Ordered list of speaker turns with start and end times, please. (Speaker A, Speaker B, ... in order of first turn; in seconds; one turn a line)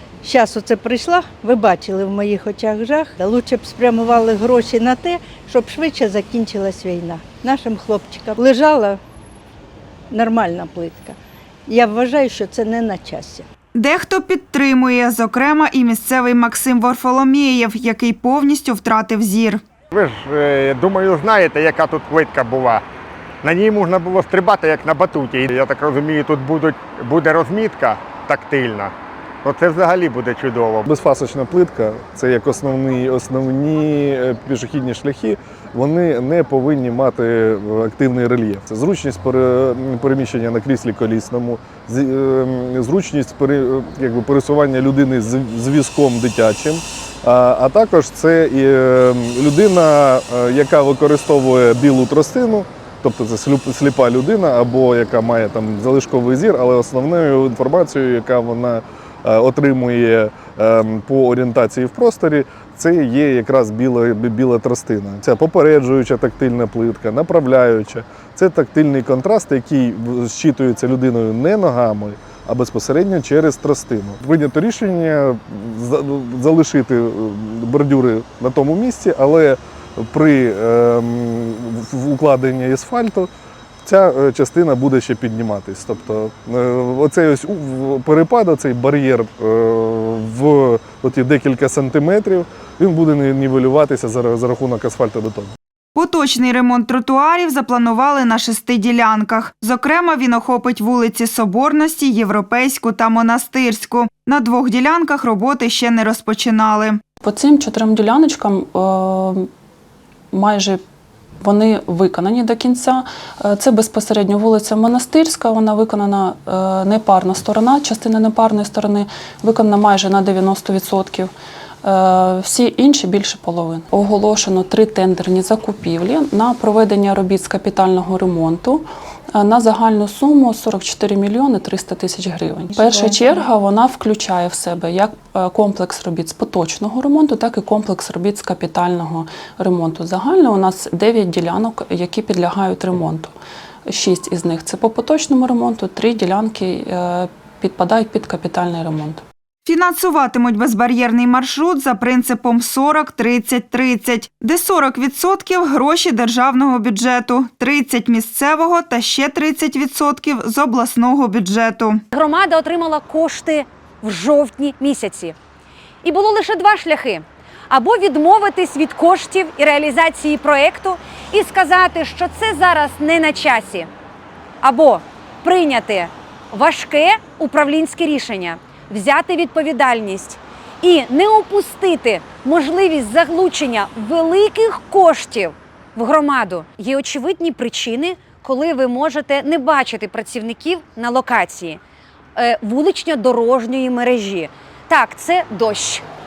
Speaker A: 0.2-9.0
Speaker A: 10.1-11.2
Speaker A: 11.7-13.5
Speaker B: 13.7-19.6
Speaker C: 19.9-22.8
Speaker C: 23.4-30.8
Speaker D: 30.8-83.3
Speaker D: 83.8-95.5
Speaker B: 95.9-107.0
Speaker E: 107.2-109.5
Speaker E: 110.3-110.8
Speaker E: 111.4-121.3
Speaker E: 121.8-143.3
Speaker E: 143.8-149.2
Speaker B: 149.6-162.0
Speaker F: 162.1-165.3
Speaker F: 166.0-173.9
Speaker F: 174.6-191.8
Speaker F: 192.3-196.0